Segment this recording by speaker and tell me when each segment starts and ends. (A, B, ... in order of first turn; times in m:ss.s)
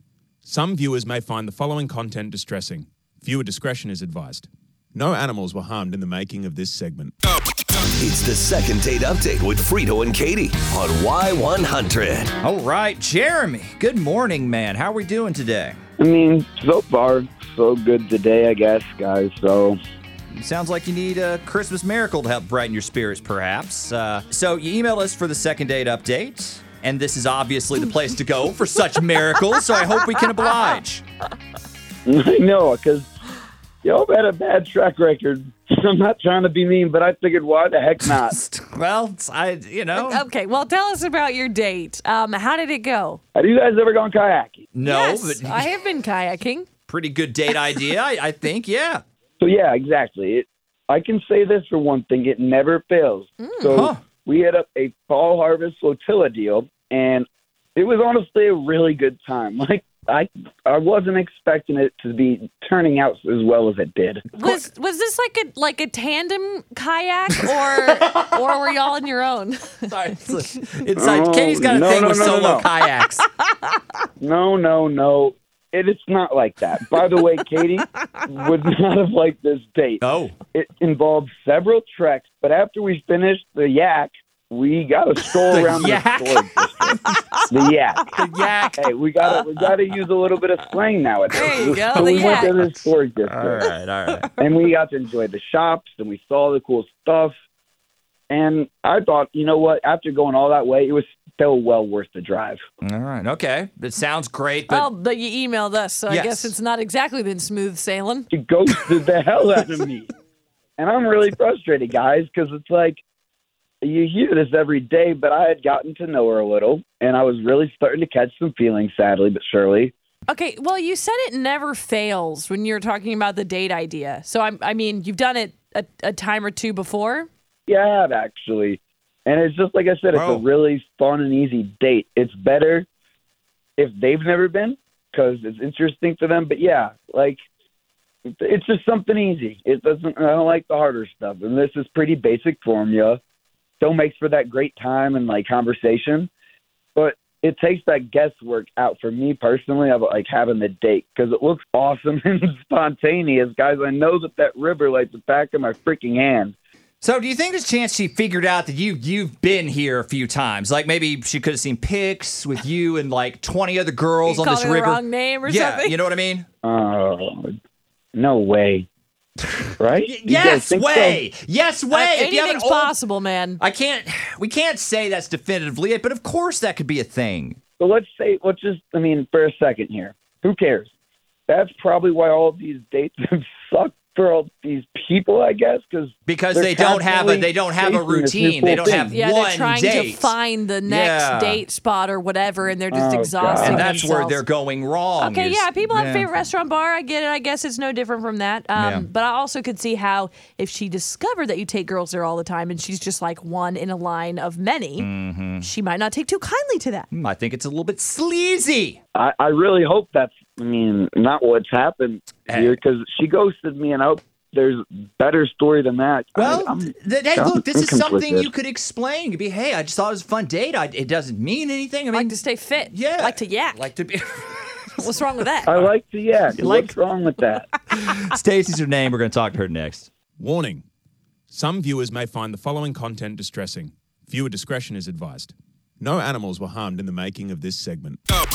0:00.4-0:07.2 A
0:08.0-0:12.3 B
0:12.4-0:15.8 C
0:16.0-0:19.8 D
0:20.4-0:31.0 C
0:32.1-0:33.1 D
0:33.8-0:38.4 D
0:38.0-0:40.2 C
0:39.9-0:43.2 E
0:43.4-0:44.7 D
0:44.7-0:45.6 C
0:44.8-0:46.7 E
0:46.9-0:49.0 C
0:49.4-1:04.5 D
0:53.4-0:53.9 E
0:53.7-0:54.0 C
1:04.4-1:10.4 E
1:09.9-1:13.2 C
1:11.0-1:12.7 D
1:14.2-1:20.0 D
1:20.0-1:20.4 C
1:20.5-1:27.0 D
1:25.5-1:27.0 C
1:27.1-1:28.7 E
1:27.5-1:28.0 D
1:28.1-1:28.9 C
1:28.8-1:33.6 D
1:31.3-1:32.7 E
1:32.0-1:32.5 C
1:33.2-1:34.3 C
1:34.2-1:34.5 E
1:34.4-1:37.3 D
1:38.3-1:42.6 D
1:42.8-1:44.9 C
1:44.7-1:48.8 E
1:46.1-1:46.5 C
1:48.3-1:50.1 D
1:50.8-1:53.0 D
1:53.8-1:59.9 D
2:00.3-2:07.3 E
2:07.7-2:12.9 D
2:10.1-2:10.4 C
2:13.8-2:17.4 D
2:18.3-2:23.2 D
2:23.8-2:26.3 D
2:27.0-2:36.6 D
2:37.0-2:46.5 C
2:44.2-2:46.0 E
2:46.6-2:47.6 D
2:48.2-2:48.9 D
2:49.8-2:51.2 D
2:50.0-2:53.0 C
2:51.9-2:53.6 E
2:53.6-2:57.6 C
2:57.8-3:00.9 D
3:01.5-3:09.2 D
3:06.3-3:11.6 C
3:09.1-3:14.4 E
3:12.9-3:13.8 D
3:13.6-3:16.3 C
3:15.2-3:27.1 E
3:18.8-3:19.1 C
3:25.0-3:25.7 C
3:27.1-3:29.0 C
3:29.2-3:38.5 D
3:32.5-3:32.8 C
3:36.4-3:42.4 C
3:42.1-3:43.9 E
3:42.9-3:45.0 C
3:45.0-3:45.7 E
3:45.6-3:45.9 C
3:45.7-3:47.7 D
3:46.6-3:47.0 C
3:47.9-3:50.1 C
3:50.4-3:50.8 A
3:51.5-3:58.2 A